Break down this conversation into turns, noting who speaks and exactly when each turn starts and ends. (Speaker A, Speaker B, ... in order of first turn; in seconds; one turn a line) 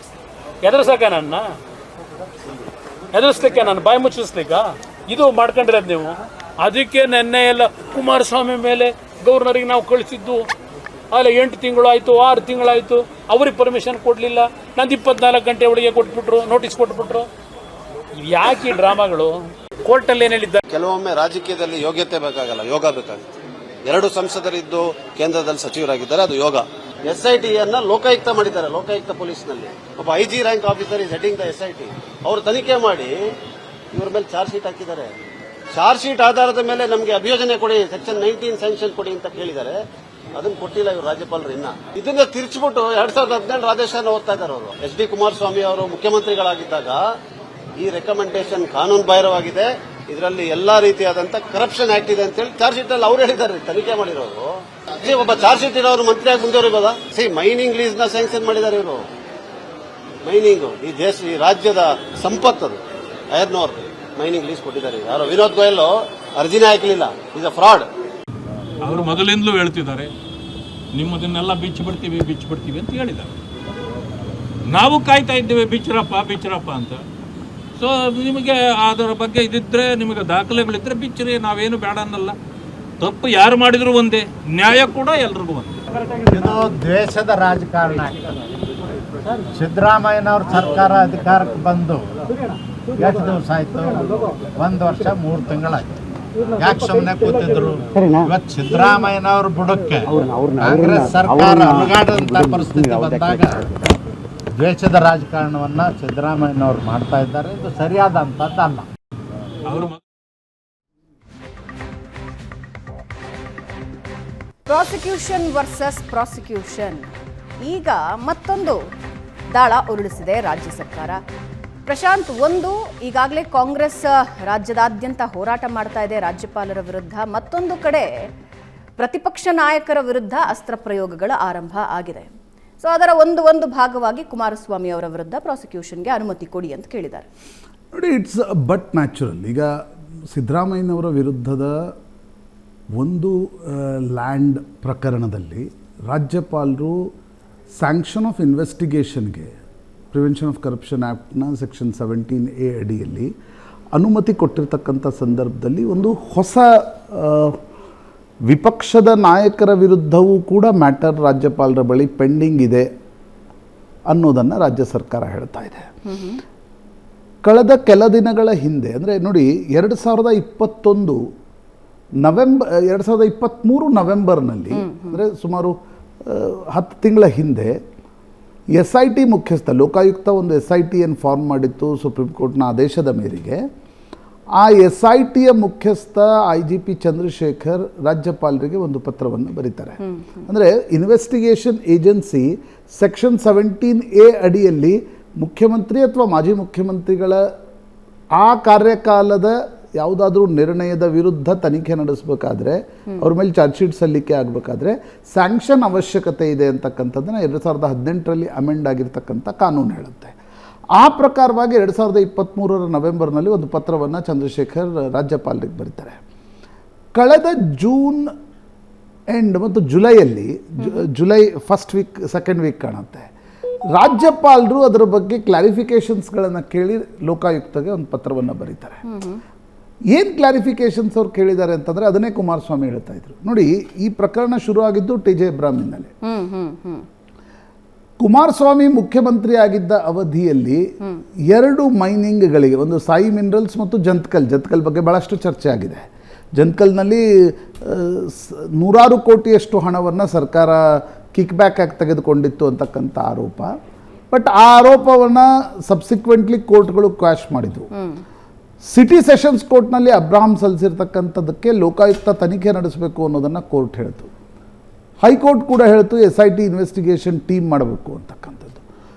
Speaker A: 0.6-1.4
Speaker A: 3.1-10.4
Speaker A: 11.1-17.3
Speaker A: 18.2-20.6
Speaker B: 20.7-23.3
Speaker B: 23.8-33.2
Speaker B: 33.9-35.1
Speaker B: 35.7-39.8
Speaker B: 40.4-47.0
Speaker B: 47.8-59.0
Speaker B: 60.2-62.8
Speaker B: 63.3-67.9
Speaker C: 68.8-70.1
Speaker C: 70.9-73.4
Speaker C: 74.7-77.0
Speaker C: 77.8-82.4
Speaker C: 83.0-85.7
Speaker D: 86.3-88.2
Speaker D: 89.3-92.1
Speaker D: 93.0-95.9
Speaker D: 96.6-103.6
Speaker D: 104.6-108.9
Speaker C: 109.7-110.0
Speaker E: 114.7-117.1
Speaker E: 117.6-118.8
Speaker E: 119.5-121.2
Speaker E: 121.9-128.1
Speaker E: 129.0-137.3
Speaker F: 137.9-139.7
Speaker F: 140.3-141.9
Speaker F: 143.0-147.1
Speaker F: 147.8-149.5
Speaker F: 150.1-153.3
Speaker F: 153.9-157.6
Speaker F: 158.5-162.9
Speaker F: 164.1-165.9
Speaker E: 166.0-166.4
Speaker F: 167.4-171.2
Speaker F: 172.2-177.8
Speaker E: 174.7-175.2
Speaker F: 178.8-183.6
Speaker F: 184.6-197.5
Speaker E: 190.0-190.4
Speaker F: 198.3-210.3
Speaker F: 211.0-216.2
Speaker F: 217.2-218.3
Speaker F: 219.3-223.3
Speaker F: 223.9-229.0
Speaker E: 229.0-229.4
Speaker F: 230.1-236.1
Speaker E: 236.2-237.1
Speaker F: 238.2-240.8
Speaker F: 241.5-253.7
Speaker F: 254.3-257.9
Speaker E: 257.9-258.2
Speaker F: 258.9-264.3
Speaker F: 265.2-268.8